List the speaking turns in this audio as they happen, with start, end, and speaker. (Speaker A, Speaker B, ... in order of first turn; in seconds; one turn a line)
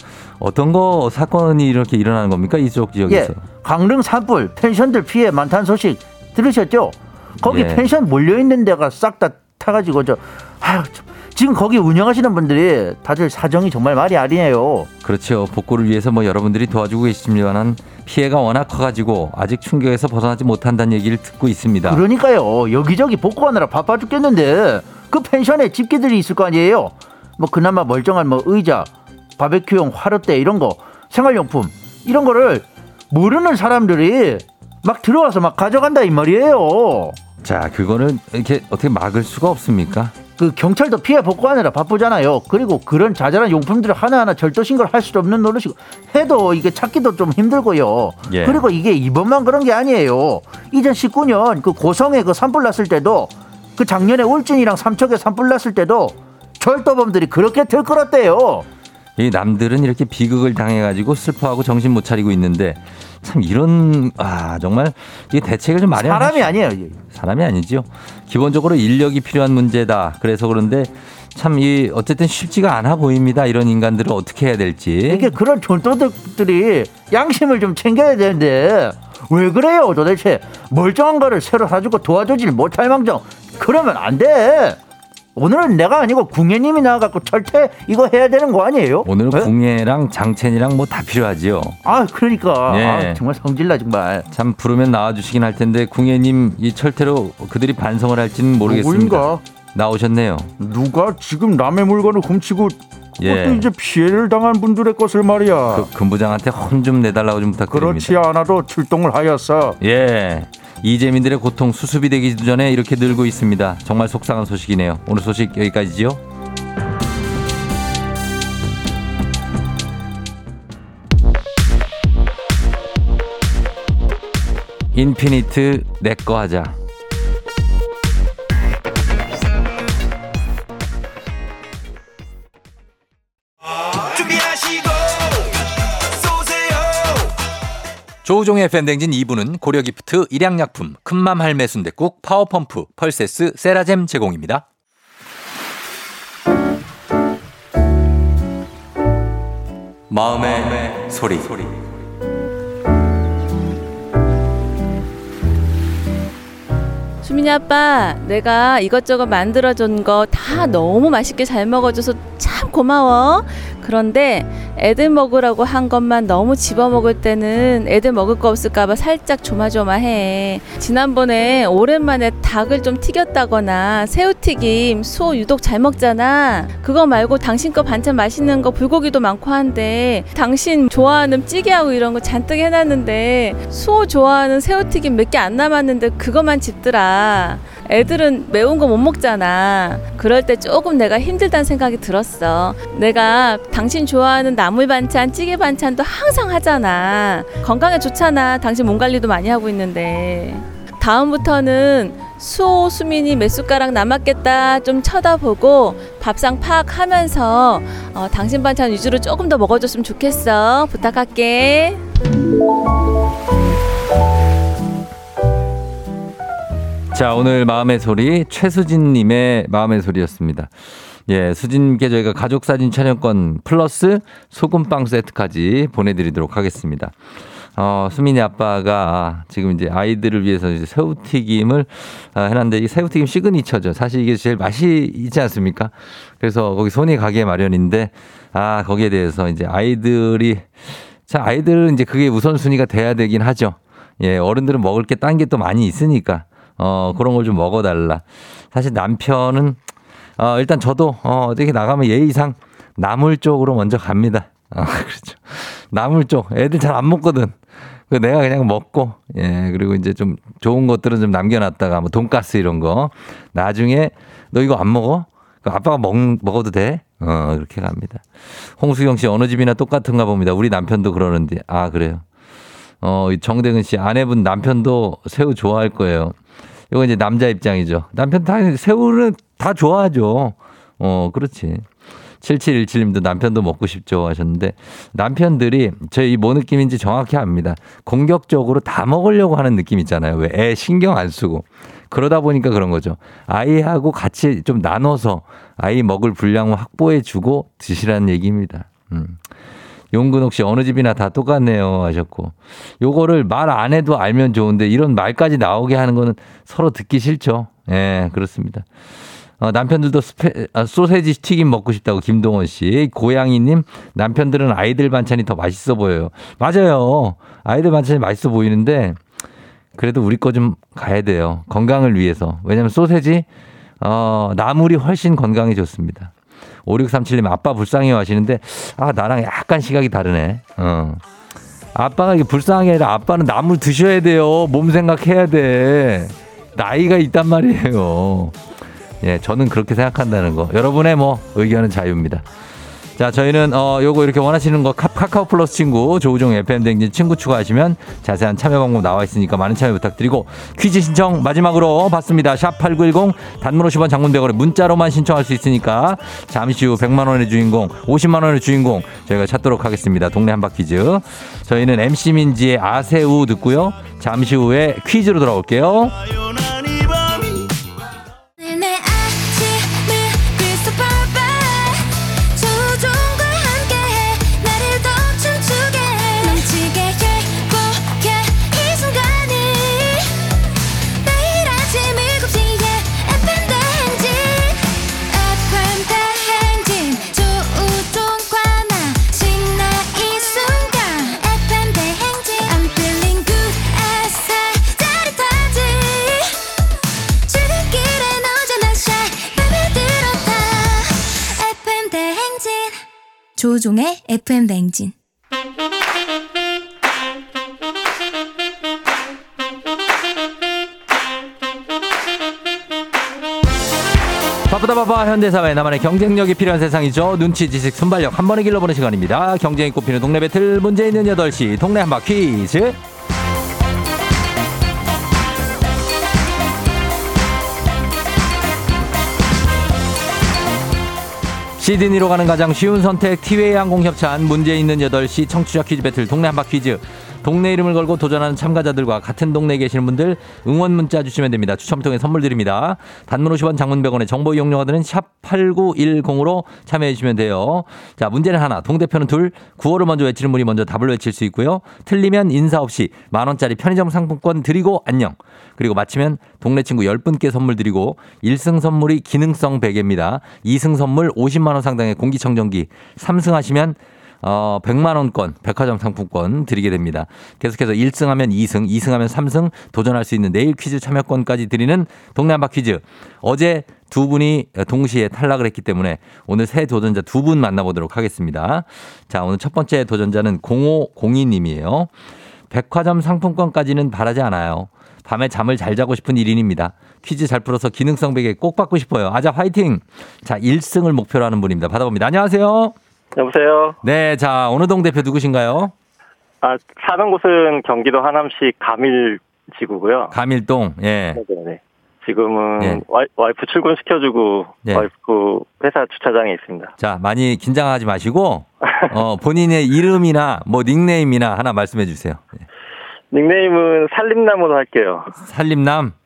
Speaker A: 0.4-3.4
Speaker B: 3.1-14.9
Speaker A: 7.5-7.8
Speaker A: 15.0-22.0
Speaker B: 21.8-37.2
Speaker A: 37.4-40.1
Speaker B: 40.4-58.6
Speaker A: 48.3-48.6
Speaker A: 59.2-75.3
Speaker B: 65.9-67.0
Speaker B: 75.1-84.8
Speaker B: 85.3-89.5
Speaker A: 89.0-91.8
Speaker B: 91.8-94.3
Speaker A: 92.7-93.2
Speaker A: 94.3-100.5
Speaker C: 98.6-99.4
Speaker C: 100.6-102.8
Speaker A: 103.2-103.7
Speaker C: 103.6-105.9
Speaker A: 105.7-108.2
Speaker C: 107.7-109.8
Speaker A: 109.8-116.2
Speaker A: 124.9-126.8
Speaker A: 138.2-144.6
Speaker A: 150.1-151.7
Speaker D: 157.2-212.0
Speaker A: 217.1-220.7
Speaker A: 221.3-227.1
Speaker A: 227.8-240.7
Speaker A: 241.2-249.8
Speaker A: 250.4-257.6
Speaker A: 258.1-268.2
Speaker A: 268.8-272.2
Speaker A: 273.0-276.4
Speaker A: 276.9-281.9
Speaker A: 282.4-299.4
Speaker A: 300.1-308.9
Speaker A: 309.6-319.2
Speaker A: 320.0-323.4
Speaker A: 324.0-326.3
Speaker A: 326.9-331.2
Speaker A: 331.9-338.6
Speaker A: 339.2-342.4
Speaker A: 343.2-366.1
Speaker E: 368.6-380.4
Speaker E: 381.2-396.6
Speaker E: 397.4-403.0
Speaker E: 403.6-405.0
Speaker A: 414.7-423.0
Speaker A: 431.8-482.1
Speaker A: 482.7-492.9
Speaker F: 493.4-493.9
Speaker A: 494.0-495.9
Speaker F: 496.6-500.3
Speaker A: 500.3-501.4
Speaker F: 501.4-506.9
Speaker A: 507.0-512.6
Speaker F: 513.3-515.3
Speaker A: 515.4-516.1